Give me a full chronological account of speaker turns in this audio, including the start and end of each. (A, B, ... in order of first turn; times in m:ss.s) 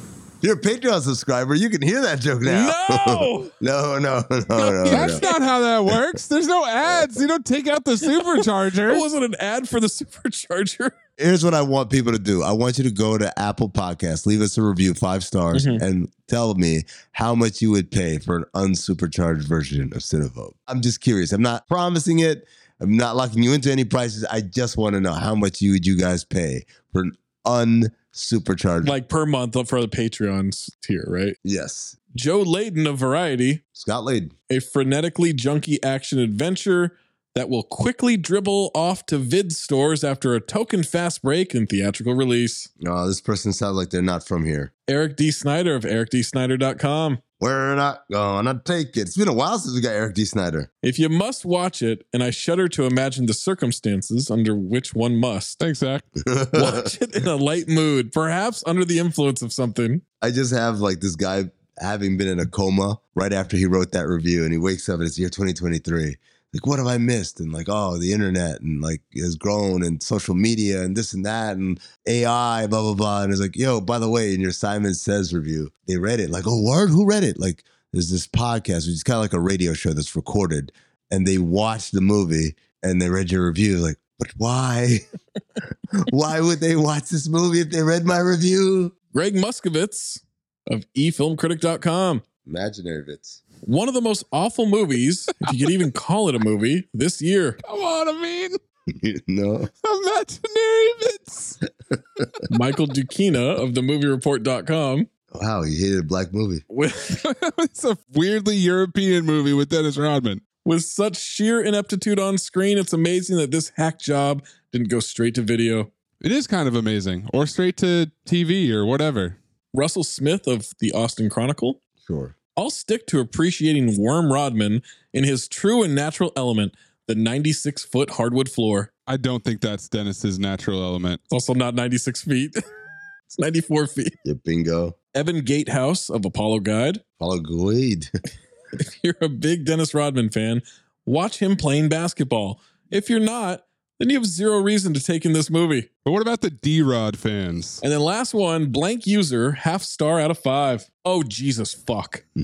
0:00.4-0:05.2 A
0:02.4-0:03.5 B
0:04.6-0:05.3 B
0:04.9-0:09.0 C
0:08.1-0:10.9 B
0:11.2-0:29.0 A
0:15.5-0:15.8 B
0:28.8-0:31.4 B
0:31.4-0:32.0 A
0:32.1-0:33.6 B
0:33.7-0:34.3 A
0:34.5-0:42.7 B
0:42.8-0:44.7 A
0:44.9-0:47.2 B
0:47.4-0:50.7 A
0:50.8-0:55.6 B
0:55.6-0:56.1 C
0:56.2-0:56.9 A
0:56.6-1:00.0 B
1:00.2-1:25.0 A
1:26.1-1:28.9 A
1:29.1-1:32.2 B
1:32.4-1:33.4 A
1:33.6-1:37.6 B
1:37.6-1:38.6 C
1:38.9-1:39.7 A
1:39.8-1:41.6 C
1:42.5-1:45.1 B
1:45.3-1:46.6 A
1:46.7-1:47.2 B
1:47.2-1:50.4 C
1:50.6-1:55.9 B
1:56.2-1:59.4 C
1:59.7-2:01.8 B
2:02.0-2:02.4 A
2:02.6-2:08.9 B
2:09.1-2:11.2 C
2:11.3-2:12.6 B
2:13.3-2:14.1 B
2:14.2-2:15.0 A
2:15.1-2:17.0 B
2:17.2-2:18.1 A
2:18.8-2:25.9 B
2:26.1-2:27.8 C
2:27.8-2:32.2 B